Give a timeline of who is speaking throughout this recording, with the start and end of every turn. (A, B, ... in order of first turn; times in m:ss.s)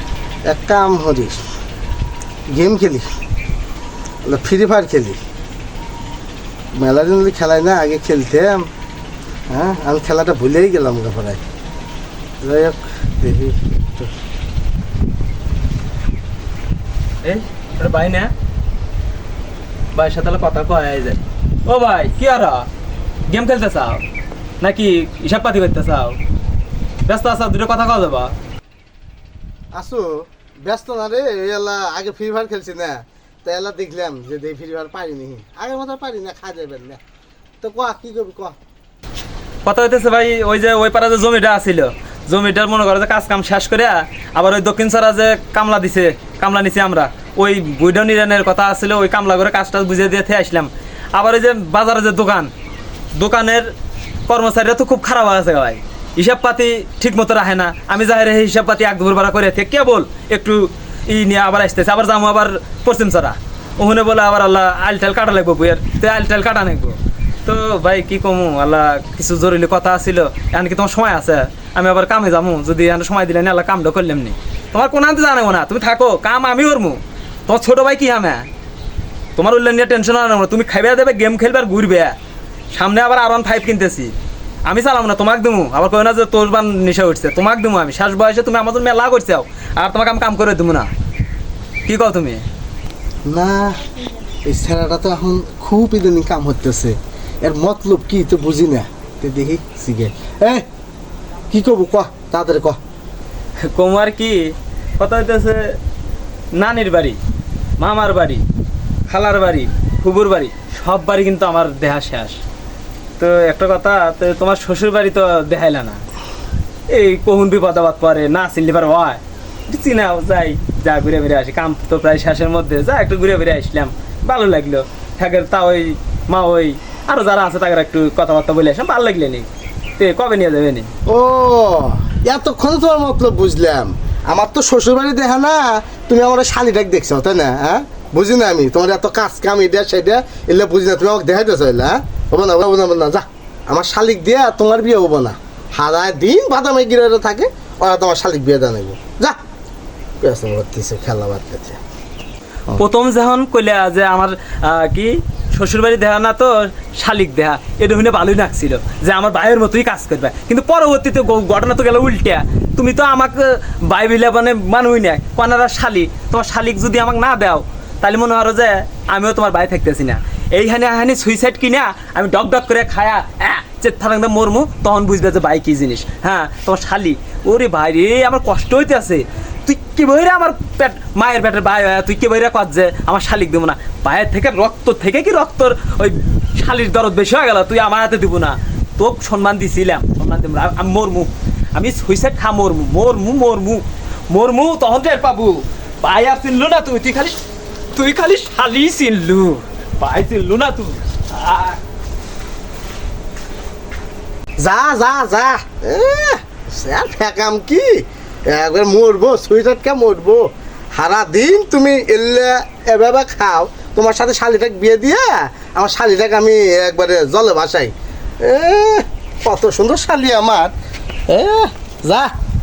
0:00.5-0:01.4 A
0:02.5-0:03.1 A
0:04.2-0:05.2 A
0:06.7-0:08.7 A
0:09.5-0:11.4 A
0:12.4-0:14.1 A
0:17.2-0:18.3 B
0:19.9-0:22.7 B
0:23.3-0:24.0 B
0:24.6-0:26.2 B
0:27.1-0:28.4 B
0:29.7-0:37.0 A
0:37.6-0:38.6 A
0:39.6-0:52.5 B
0:53.1-0:53.7 B
0:54.3-1:18.5 B
1:19.4-1:22.2 B
1:22.7-1:24.1 B
1:24.7-1:30.9 B
1:31.9-1:32.4 B
1:33.3-1:33.8 A
1:34.5-1:40.7 A
1:41.5-1:42.8 A
1:43.6-1:45.8 B
1:46.6-1:47.2 B
1:47.8-1:48.4 B
1:49.1-1:52.4 B
1:53.2-1:56.0 B
1:56.9-2:10.9 B
2:11.1-2:29.4 A
2:30.2-2:31.8 A
2:32.8-3:17.4 B
3:17.9-3:21.8 B
3:24.6-3:40.7 A
3:41.3-3:42.3 A